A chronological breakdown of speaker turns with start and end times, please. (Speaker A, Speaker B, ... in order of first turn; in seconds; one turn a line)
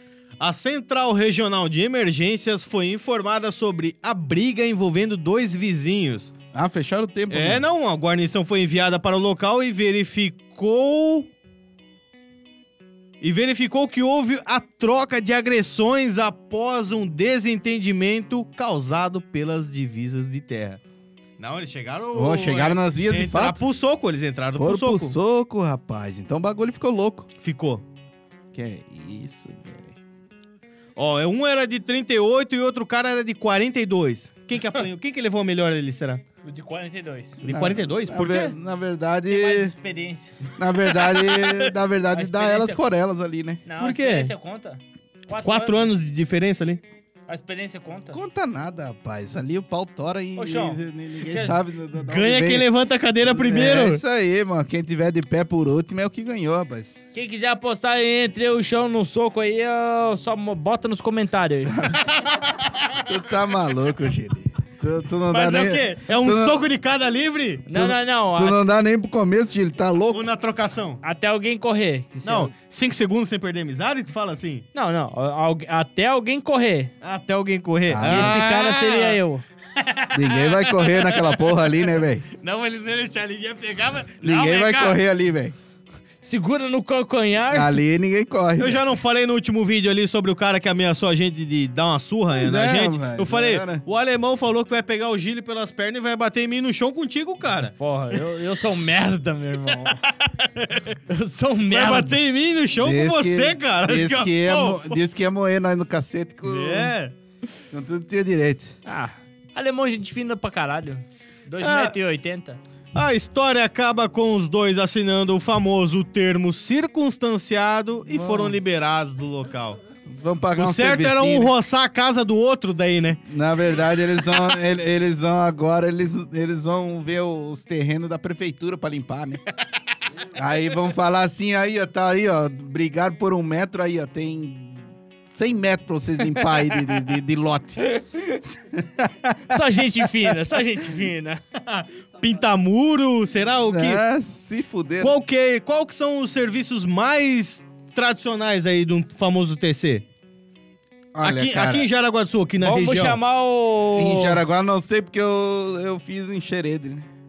Speaker A: 0.4-6.3
Speaker B: 6.5-7.6
Speaker A: 7.3-11.3
Speaker A: 13.2-20.8
Speaker A: 21.4-25.2
Speaker B: 22.1-23.6
Speaker B: 24.6-27.3
Speaker A: 27.4-27.8
Speaker B: 28.5-29.9
Speaker A: 31.0-36.2
Speaker C: 36.4-37.4
Speaker A: 37.4-38.5
Speaker B: 37.5-39.7
Speaker C: 39.3-40.4
Speaker B: 40.6-43.6
Speaker A: 40.8-41.7
Speaker C: 42.1-42.8
Speaker C: 43.6-45.9
Speaker A: 43.8-44.3
Speaker A: 45.4-46.8
Speaker C: 47.3-48.2
Speaker B: 48.1-52.7
Speaker C: 50.4-51.6
Speaker A: 52.0-54.0
Speaker B: 53.2-56.9
Speaker C: 57.1-61.9
Speaker B: 61.7-62.1
Speaker A: 62.0-63.0
Speaker B: 63.0-66.6
Speaker A: 65.3-67.7
Speaker C: 67.7-68.6
Speaker B: 67.7-70.3
Speaker A: 70.1-71.0
Speaker C: 71.0-72.5
Speaker A: 72.2-74.7
Speaker C: 74.7-76.9
Speaker A: 77.0-79.2
Speaker B: 77.9-78.5
Speaker C: 78.0-79.4
Speaker A: 79.8-85.0
Speaker B: 80.1-82.2
Speaker B: 84.2-85.5
Speaker C: 86.2-87.8
Speaker B: 87.5-88.8
Speaker A: 88.6-97.7
Speaker B: 92.3-93.8
Speaker C: 97.8-100.0
Speaker A: 100.0-101.0
Speaker C: 101.1-102.2
Speaker A: 101.7-105.0
Speaker B: 102.8-106.9
Speaker A: 106.5-107.1
Speaker B: 107.7-108.8
Speaker C: 108.9-112.6
Speaker A: 111.6-111.9
Speaker A: 112.9-119.8
Speaker B: 118.2-118.5
Speaker B: 120.1-121.5
Speaker A: 120.6-123.2
Speaker B: 123.3-129.4
Speaker B: 130.3-138.0
Speaker C: 136.4-136.8
Speaker B: 138.7-139.6
Speaker C: 139.5-141.4
Speaker A: 141.6-144.0
Speaker B: 143.7-145.2
Speaker A: 145.0-150.1
Speaker B: 151.1-151.9
Speaker A: 151.2-153.2
Speaker C: 152.6-154.4
Speaker B: 154.0-157.1